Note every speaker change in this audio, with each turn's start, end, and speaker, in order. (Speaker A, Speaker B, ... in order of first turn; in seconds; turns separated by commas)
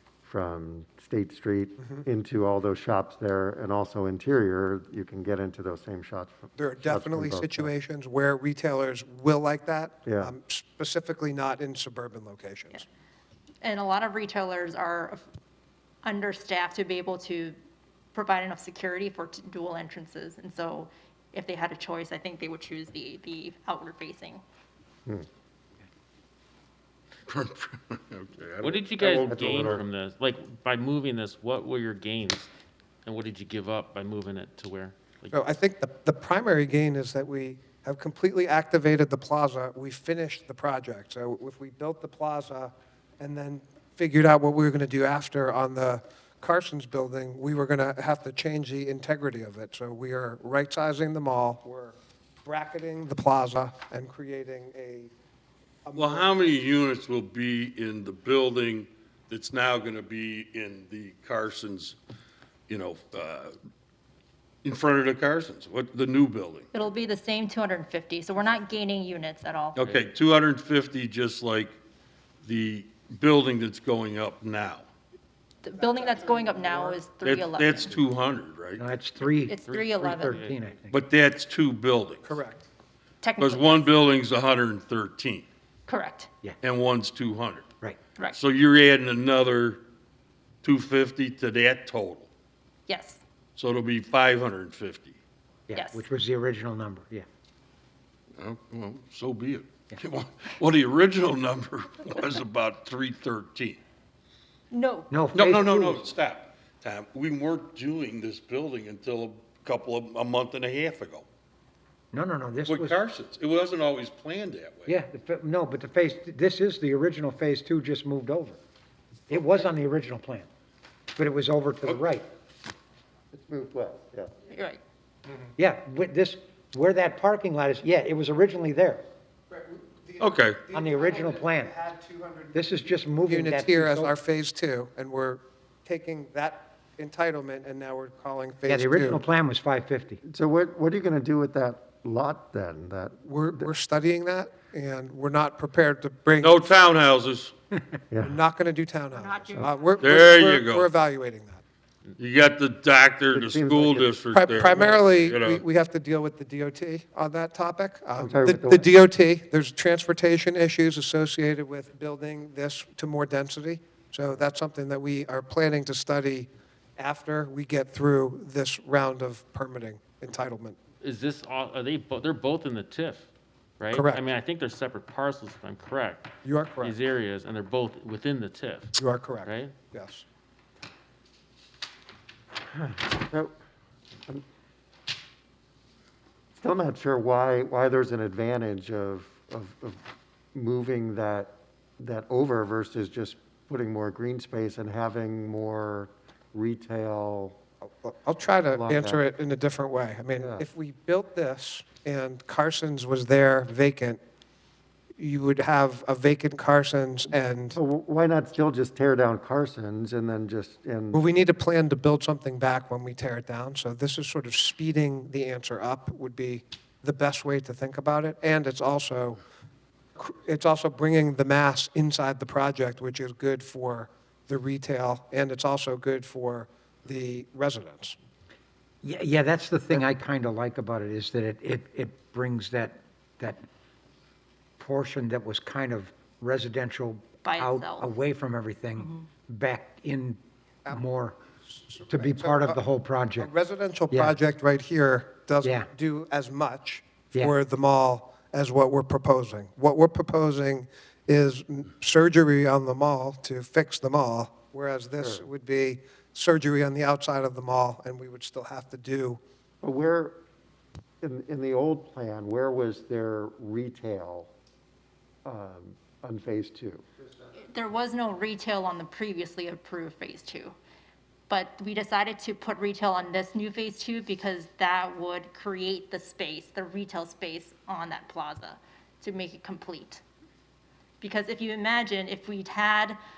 Speaker A: 0.2-7.7, Speaker B: 6.6-12.8, Speaker A: 10.1-10.3, Speaker C: 13.6-15.3, Speaker C: 16.0-17.6, Speaker C: 18.1-24.4, Speaker D: 28.2-29.5, Speaker E: 28.6-32.5, Speaker A: 29.0-29.8, Speaker E: 33.0-35.4, Speaker B: 35.3-55.1, Speaker B: 55.9-56.6, Speaker D: 56.0-61.9, Speaker D: 62.7-63.5, Speaker D: 64.6-66.7, Speaker C: 66.7-69.9, Speaker D: 69.8-71.8, Speaker D: 72.4-74.9, Speaker C: 75.6-78.0, Speaker B: 75.8-77.0, Speaker D: 77.2-78.8, Speaker F: 78.8-81.0, Speaker C: 79.5-80.5, Speaker E: 79.7-80.6, Speaker D: 80.9-82.3, Speaker B: 82.2-82.7, Speaker C: 83.2-83.9, Speaker D: 83.4-85.5, Speaker C: 85.9-86.3, Speaker D: 86.6-87.7, Speaker D: 88.3-89.8, Speaker D: 90.6-92.3, Speaker C: 92.9-93.2, Speaker D: 93.6-95.2, Speaker F: 95.7-97.3, Speaker C: 95.7-96.1, Speaker D: 98.4-103.8, Speaker C: 104.7-105.2, Speaker F: 105.1-106.1, Speaker D: 105.3-111.3, Speaker F: 112.1-113.0, Speaker D: 112.7-114.9, Speaker F: 114.9-118.6, Speaker F: 119.3-120.5, Speaker F: 121.2-122.3, Speaker A: 123.3-124.3, Speaker C: 124.5-124.8, Speaker F: 125.6-129.0, Speaker B: 129.5-132.6, Speaker D: 130.2-130.7, Speaker F: 130.7-131.8, Speaker F: 132.5-134.2, Speaker B: 133.3-139.2, Speaker F: 138.7-140.2, Speaker A: 140.3-143.7, Speaker B: 143.2-146.7, Speaker D: 146.4-147.5, Speaker B: 148.2-151.6, Speaker C: 149.1-150.2, Speaker D: 150.0-150.9, Speaker D: 152.2-155.6, Speaker A: 153.3-154.2, Speaker B: 154.3-170.8, Speaker A: 158.2-158.9, Speaker E: 171.0-173.3, Speaker E: 173.8-176.3, Speaker B: 173.9-174.2, Speaker B: 176.4-177.0, Speaker E: 176.8-179.7, Speaker B: 179.0-180.2, Speaker A: 182.8-183.5, Speaker A: 186.6-190.0, Speaker A: 190.5-197.6, Speaker B: 198.0-204.2, Speaker A: 198.7-199.2, Speaker A: 200.4-200.7, Speaker B: 205.2-207.8, Speaker A: 207.7-211.2, Speaker B: 211.1-219.4, Speaker B: 220.2-228.2, Speaker F: 229.0-233.6, Speaker F: 234.8-241.4, Speaker C: 237.4-238.2, Speaker C: 239.0-239.3, Speaker B: 241.7-242.8, Speaker F: 242.1-243.5, Speaker B: 243.4-259.4, Speaker F: 244.1-244.4, Speaker F: 245.6-245.9, Speaker A: 255.2-255.5, Speaker A: 259.8-260.4, Speaker A: 261.2-264.5, Speaker A: 265.4-267.1, Speaker C: 267.6-270.8, Speaker C: 271.5-280.2, Speaker C: 281.2-283.2